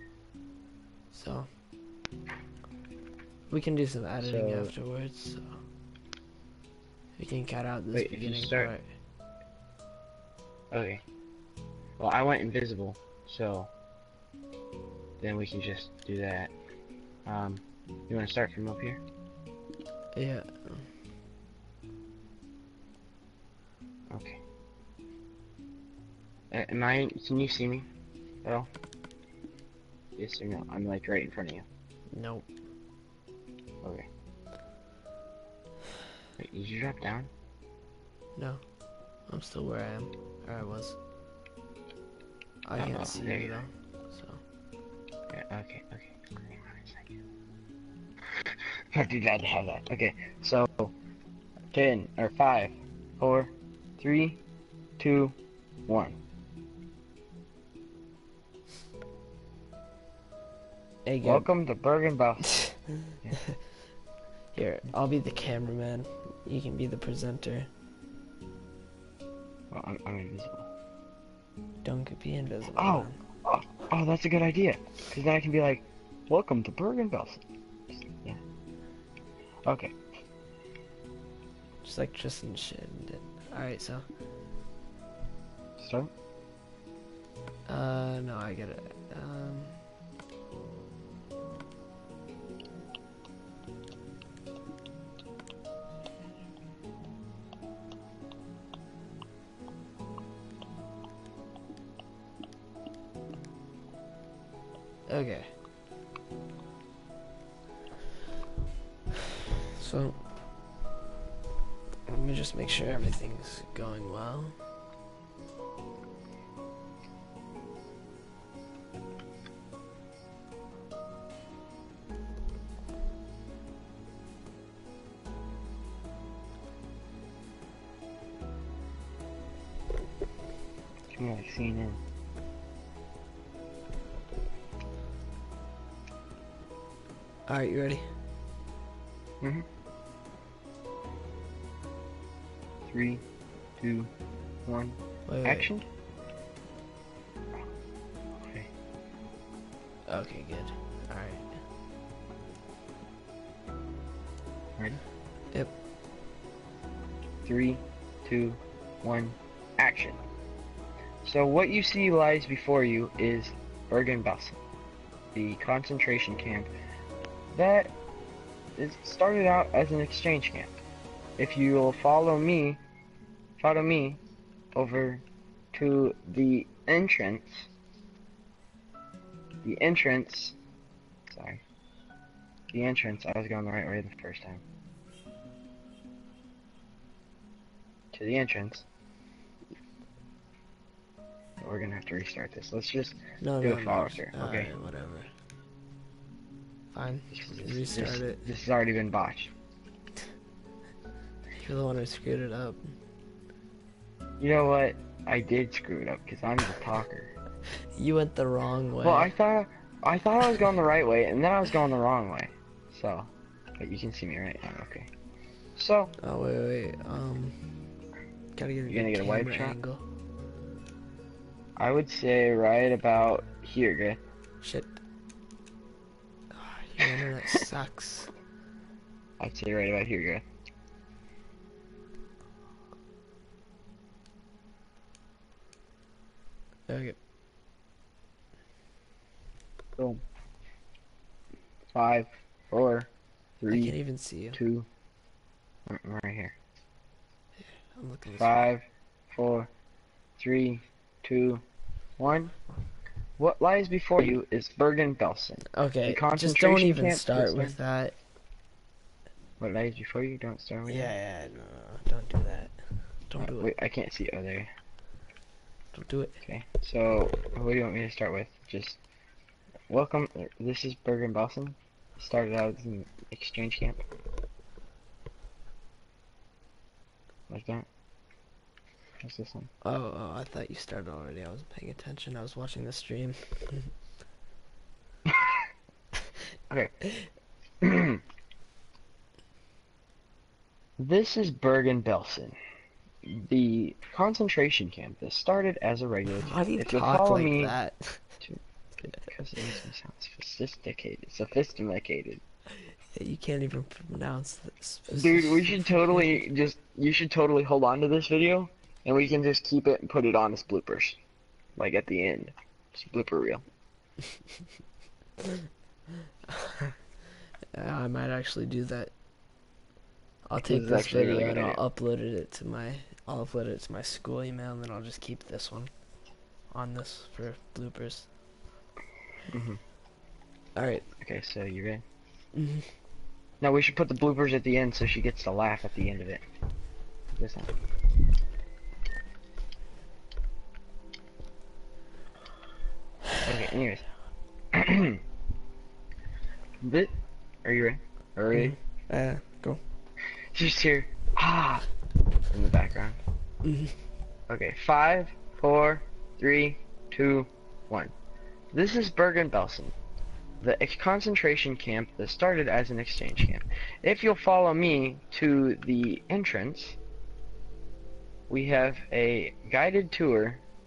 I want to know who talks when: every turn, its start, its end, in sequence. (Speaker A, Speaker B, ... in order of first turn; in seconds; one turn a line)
Speaker A: 1.1-1.5
Speaker A: 3.5-5.6
Speaker B: 4.2-4.7
Speaker A: 7.2-8.8
Speaker B: 7.9-8.7
Speaker B: 10.7-11.0
Speaker B: 12.0-13.7
Speaker B: 15.2-16.5
Speaker B: 17.3-19.0
Speaker A: 20.1-20.9
Speaker B: 24.1-24.4
Speaker B: 26.5-27.9
Speaker B: 28.4-28.7
Speaker B: 30.2-31.7
Speaker A: 32.1-32.5
Speaker B: 36.4-37.3
Speaker A: 38.4-38.6
Speaker A: 39.3-41.0
Speaker A: 42.6-44.4
Speaker B: 42.8-43.6
Speaker B: 45.3-47.1
Speaker B: 48.4-50.9
Speaker B: 51.7-54.4
Speaker B: 55.0-55.4
Speaker B: 55.9-56.2
Speaker A: 61.1-61.5
Speaker B: 61.2-63.4
Speaker A: 64.5-67.7
Speaker B: 69.7-70.7
Speaker A: 71.8-73.2
Speaker B: 72.8-77.4
Speaker B: 78.1-78.4
Speaker B: 79.7-79.9
Speaker A: 81.8-84.0
Speaker B: 85.8-86.1
Speaker A: 87.7-89.8
Speaker A: 105.1-105.5
Speaker A: 109.8-110.2
Speaker A: 112.1-114.6
Speaker B: 131.1-132.0
Speaker A: 137.5-138.1
Speaker B: 139.4-139.7
Speaker B: 142.9-143.2
Speaker B: 143.8-144.1
Speaker B: 144.7-145.8
Speaker A: 145.3-145.7
Speaker A: 150.1-151.6
Speaker B: 157.4-160.2
Speaker B: 161.2-164.6
Speaker B: 165.3-166.7
Speaker B: 167.5-167.9
Speaker B: 168.8-170.7
Speaker B: 171.4-172.8
Speaker B: 173.6-174.2
Speaker B: 174.8-177.7
Speaker B: 179.6-180.6
Speaker B: 181.3-181.6
Speaker B: 182.7-184.6
Speaker B: 188.1-188.9
Speaker B: 191.6-194.7
Speaker A: 193.4-195.3
Speaker A: 196.9-198.5
Speaker B: 197.3-199.5
Speaker A: 201.6-202.9
Speaker B: 204.4-207.3
Speaker A: 208.0-209.3
Speaker B: 209.0-215.1
Speaker B: 215.8-216.1
Speaker A: 216.2-217.7
Speaker A: 218.6-220.0
Speaker B: 218.9-219.8
Speaker B: 221.8-224.2
Speaker A: 224.6-225.0
Speaker A: 226.5-228.3
Speaker B: 229.4-230.4
Speaker A: 236.9-237.2
Speaker B: 240.0-240.2
Speaker B: 241.9-244.0
Speaker A: 243.7-244.6
Speaker B: 244.5-244.9
Speaker B: 245.9-246.6
Speaker A: 247.6-248.6
Speaker B: 248.4-249.7
Speaker B: 250.4-251.6
Speaker B: 252.2-252.5
Speaker B: 253.4-257.8
Speaker A: 255.7-258.1
Speaker B: 259.6-261.1
Speaker A: 260.9-263.7
Speaker B: 263.4-264.7
Speaker A: 265.9-266.4
Speaker B: 266.4-269.0
Speaker B: 269.9-274.0
Speaker B: 277.5-277.9
Speaker B: 279.2-279.7
Speaker A: 279.8-283.9
Speaker B: 287.8-288.2
Speaker B: 291.0-292.6
Speaker B: 293.2-297.8
Speaker A: 296.4-298.2
Speaker B: 298.4-302.4
Speaker A: 303.1-306.2
Speaker B: 305.1-311.2
Speaker B: 311.8-313.6
Speaker A: 317.7-319.1
Speaker A: 320.5-325.9
Speaker B: 320.6-321.8
Speaker A: 326.7-328.3
Speaker B: 329.5-329.8
Speaker A: 330.8-331.1
Speaker B: 331.2-332.0
Speaker A: 332.6-332.9
Speaker B: 333.6-336.4
Speaker B: 337.3-337.8
Speaker B: 343.4-344.1
Speaker B: 344.7-345.2
Speaker B: 346.8-347.1
Speaker B: 347.6-348.8
Speaker A: 348.5-349.8
Speaker B: 350.5-351.9
Speaker B: 352.5-353.2
Speaker A: 353.6-354.0
Speaker B: 354.5-358.1
Speaker B: 358.7-359.9
Speaker B: 360.6-367.0
Speaker B: 368.5-370.6